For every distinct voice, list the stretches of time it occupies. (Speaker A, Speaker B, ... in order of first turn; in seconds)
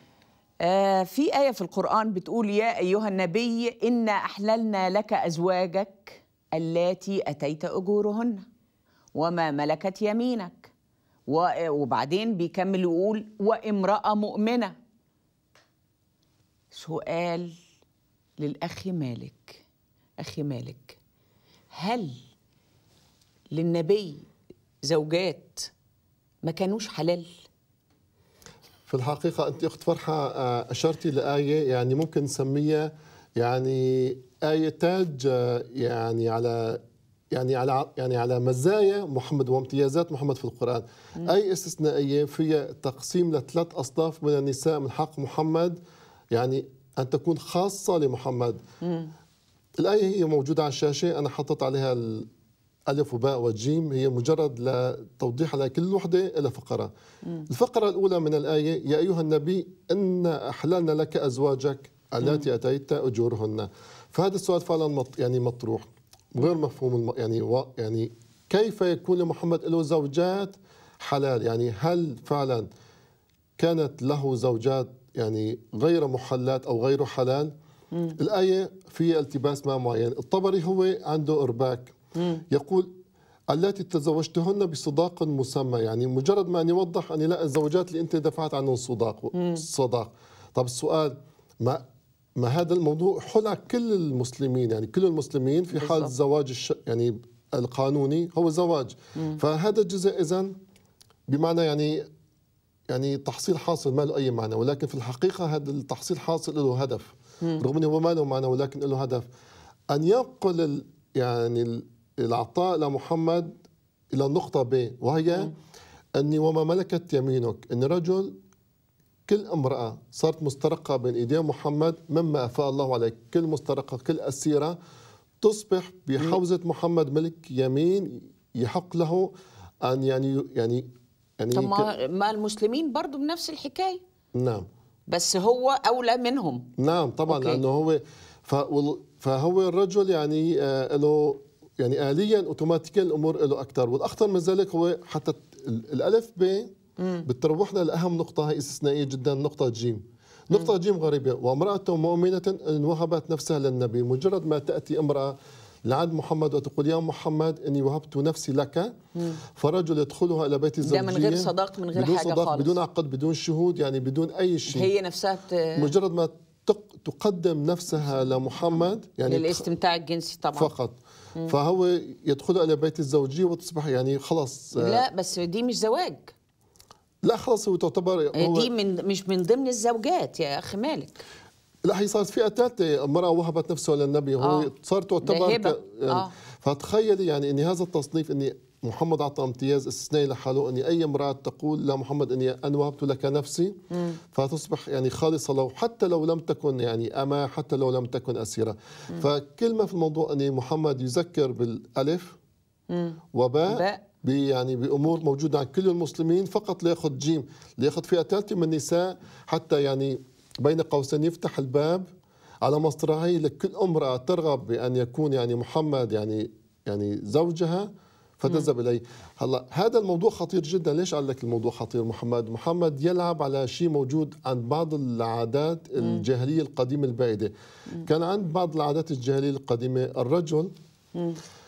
Speaker A: 0.6-8.4, 9.1-10.7, 11.3-14.7, 16.7-17.5, 18.4-19.6, 20.2-21.0, 21.7-22.2, 23.5-24.3, 24.8-25.7, 26.4-27.3, 48.8-49.1, 82.2-82.4, 89.3-89.6, 95.7-96.1, 131.5-134.0, 135.1-136.7, 137.3-137.6, 147.0-147.2, 160.8-162.8, 164.7-165.9, 169.2-170.7, 174.8-176.3, 178.3-181.2, 184.4-184.7, 185.2-186.3, 193.9-194.2, 202.9-204.0, 226.0-226.2
Speaker B: 28.9-36.8, 37.3-45.8, 46.3-48.6, 49.8-52.3, 52.9-56.9, 57.5-72.7, 73.6-77.5, 78.2-81.9, 82.5-82.9, 83.5-91.8, 92.4-100.5, 101.3-102.0, 102.9-109.2, 109.9-113.5, 114.1-115.5, 116.1-118.3, 119.3-124.8, 125.4-129.3, 129.8-130.9, 131.4-131.9, 134.3-134.7, 136.8-146.7, 147.2-164.9, 165.8-169.6, 170.5-175.0, 177.2-178.7, 181.8-193.8, 194.3-202.4, 203.3-212.1, 212.6-217.9, 218.4-227.5, 228.0-230.7